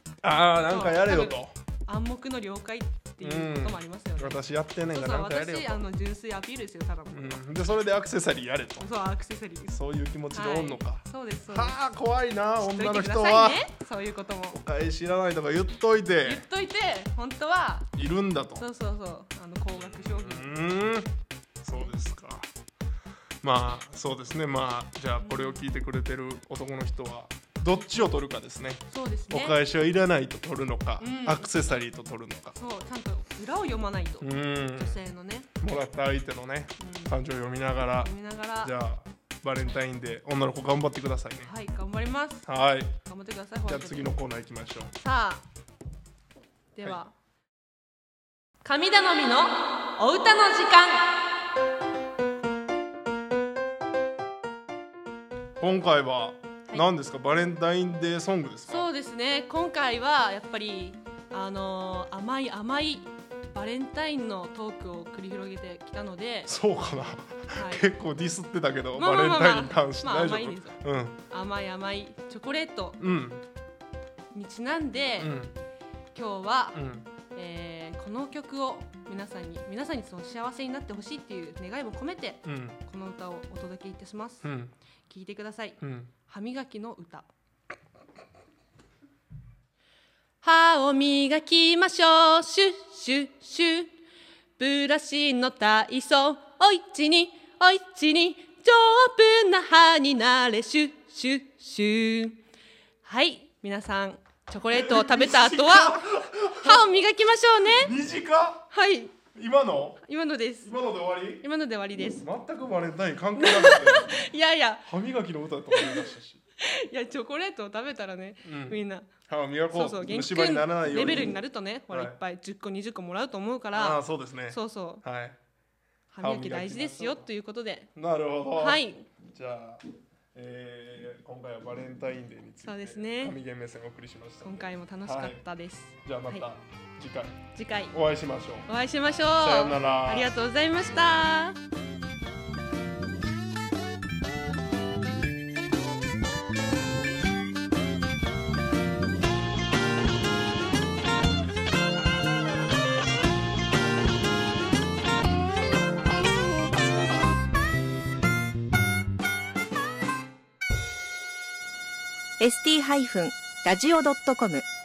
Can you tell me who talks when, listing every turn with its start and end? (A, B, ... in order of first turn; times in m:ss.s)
0:00.2-0:01.6 A
0:00.6-0:07.4 B
0:03.2-0:05.8 A
0:07.1-0:08.9 A
0:08.8-0:09.8 B
0:09.7-0:13.6 A
0:10.3-0:11.8 B
0:12.6-0:14.6 B
0:14.5-0:16.4 A
0:16.2-0:17.9 B
0:17.9-0:18.6 A
0:18.6-0:20.5 B
0:19.7-0:21.1 A
0:21.6-0:22.5 A
0:23.4-0:32.6 A
0:25.2-0:25.6 B
0:28.9-0:29.6 B
0:31.0-0:31.5 B
0:32.6-0:35.5 B
0:34.2-0:35.0 A
0:35.6-0:41.5 A
0:36.8-0:37.2 B
0:38.0-0:38.7 B
0:41.4-0:42.5 B
0:42.5-0:42.9 A
0:43.0-0:44.1 B
0:43.6-0:45.0 A
0:45.0-0:45.4 B
0:46.8-0:47.1 B
0:48.6-0:51.5 B
0:55.6-0:58.9 A
0:58.7-1:06.5 B
1:06.5-1:11.2 A
1:07.5-1:07.9 B
1:08.9-1:10.8 B
1:11.3-1:13.0 B
1:13.0-1:13.4 A
1:14.3-1:15.4 B
1:15.2-1:15.6 A
1:16.1-1:24.5 B
1:16.7-1:17.1 A
1:22.4-1:22.8 A
1:24.4-1:24.7 A
1:25.1-1:27.3 B
1:25.8-1:26.1 A
1:30.4-1:33.9 B
1:34.6-1:42.4 B
1:43.0-1:46.0 B
1:44.7-1:46.9 A
1:46.6-1:47.9 B
1:47.6-1:48.7 A
1:48.7-1:49.2 B
1:49.3-1:50.0 A
1:50.0-1:50.7 B
1:50.6-1:51.4 A
1:51.4-1:52.3 B
1:52.2-1:54.2 A
1:53.4-1:54.9 B
1:54.9-1:56.4 A
1:55.7-1:56.1 B
1:56.6-1:59.1 B
1:58.4-2:01.4 A
1:59.7-2:05.0 B
2:01.9-2:02.2 A
2:03.7-2:05.4 A
2:06.1-2:07.9 B
2:06.2-2:07.3 A
2:08.0-2:09.8 A
2:08.5-2:09.1 B
2:10.4-2:15.4 A
2:12.6-2:13.4 B
2:14.4-2:16.5 B
2:16.0-2:18.7 A
2:17.6-2:18.0 B
2:18.7-2:21.6 B
2:19.4-2:20.3 A
2:42.4-2:44.7 C